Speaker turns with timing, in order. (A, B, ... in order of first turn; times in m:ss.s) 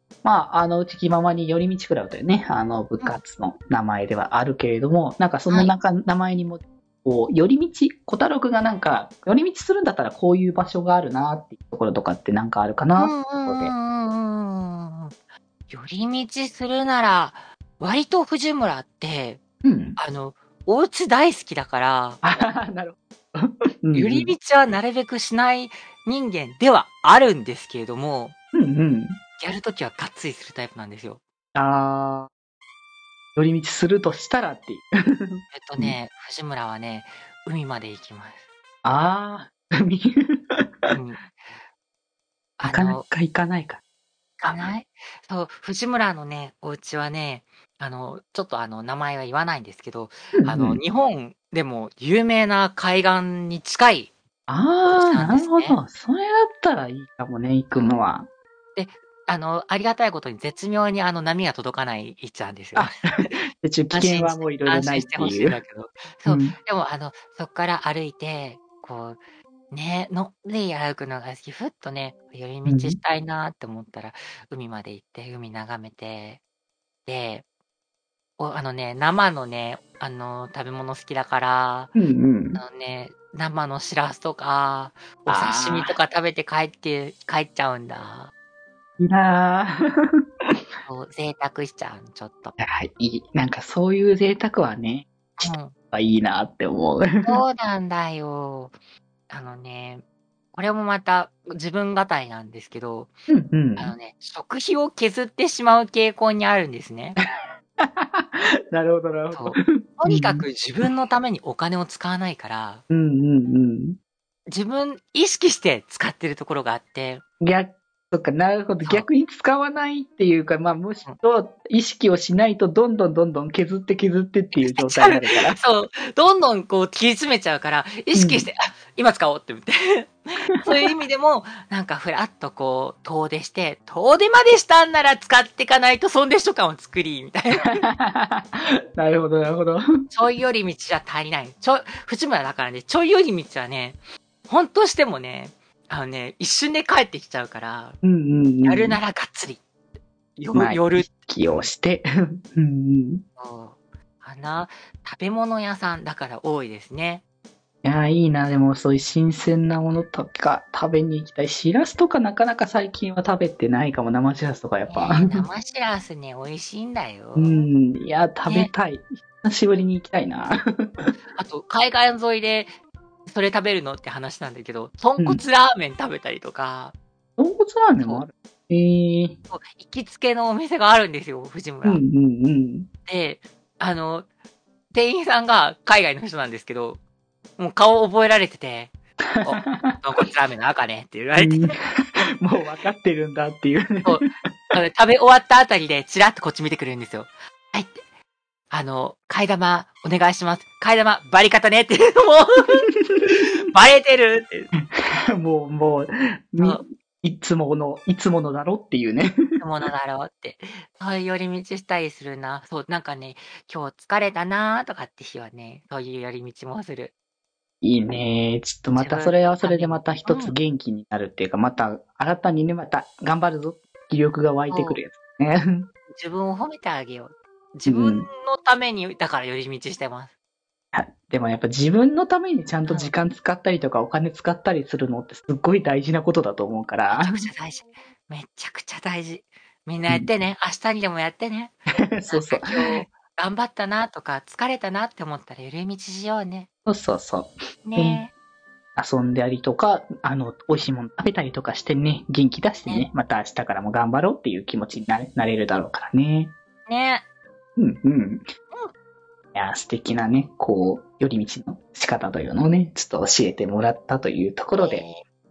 0:00.2-0:13.7 A
0:13.0-0:15.1 B
0:15.7-0:19.4 B
0:19.6-0:20.0 A
0:20.0-0:22.2 B
0:22.2-0:24.3 A
0:23.9-0:28.4 B
0:28.5-0:29.2 A
0:29.4-0:31.2 B
0:31.6-0:32.3 A
0:33.4-0:36.0 A
0:35.5-0:38.4 B
0:38.8-0:40.2 A
0:40.9-0:41.3 B
0:42.6-0:43.0 B
0:42.7-0:43.8 A
0:44.4-0:54.1 B
0:50.4-0:50.8 A
0:54.5-0:58.3 A
0:54.9-0:55.8 B
0:58.8-1:03.4 B
1:02.8-1:05.6 A
1:03.9-1:09.2 B
1:06.3-1:06.6 A
1:09.7-1:16.4 B
1:12.7-1:13.0 A
1:17.1-1:17.4 B
1:18.4-1:21.9 B
1:22.0-1:22.6 A
1:22.6-1:28.3 B
1:25.3-1:26.0 A
1:29.0-1:29.8 A
1:30.9-1:32.6 B
1:32.6-1:37.4 A
1:35.4-1:35.7 B
1:37.2-1:38.7 B
1:39.3-1:40.0 B
1:40.5-1:43.1 B
1:43.3-1:44.0 A
1:43.8-1:47.2 B
1:47.8-1:50.4 A
1:49.3-1:52.8 B
1:52.9-1:54.0 A
1:54.5-1:57.2 B
1:57.4-2:05.6 A
2:04.6-2:17.8 B
2:08.1-2:08.5 A
2:17.8-2:19.8 A
2:20.1-2:28.0 B
2:28.0-2:29.0 A
2:28.6-2:29.6 B
2:30.4-2:31.7 B
2:30.5-2:33.2 A
2:33.4-2:37.2 B
2:37.8-2:45.5 A
2:44.9-2:47.7 B
2:47.4-2:51.1 A
2:48.4-2:48.7 B
2:51.4-2:52.7 B
2:53.3-2:57.0 B
2:57.4-2:59.4 A
2:58.0-2:58.2 B
2:59.5-3:02.0 B
3:01.8-3:02.9 A
3:03.1-3:04.3 B
3:04.9-3:07.0 B
3:07.6-3:11.7 B
3:09.4-3:10.0 A
3:11.4-3:11.8 A
3:12.4-3:14.8 A
3:14.0-3:18.0 B
3:18.7-3:24.7 B
3:23.2-3:23.4 A
3:25.4-3:29.3 A
3:29.6-3:37.1 B
3:37.8-3:45.9 A
3:39.0-3:40.6 B
3:44.7-3:45.0 B
3:46.1-3:50.3 B
3:47.9-3:48.3 A
3:50.9-3:57.4 A
3:52.9-3:53.1 B
3:57.1-4:01.8 B
4:02.1-4:03.1 A
4:02.3-4:06.7 B
4:06.9-4:08.2 A
4:07.8-4:08.3 B
4:09.0-4:16.5 A
4:16.9-4:17.2 B
4:17.8-4:18.5 A
4:19.6-4:25.0 A
4:24.7-4:25.2 B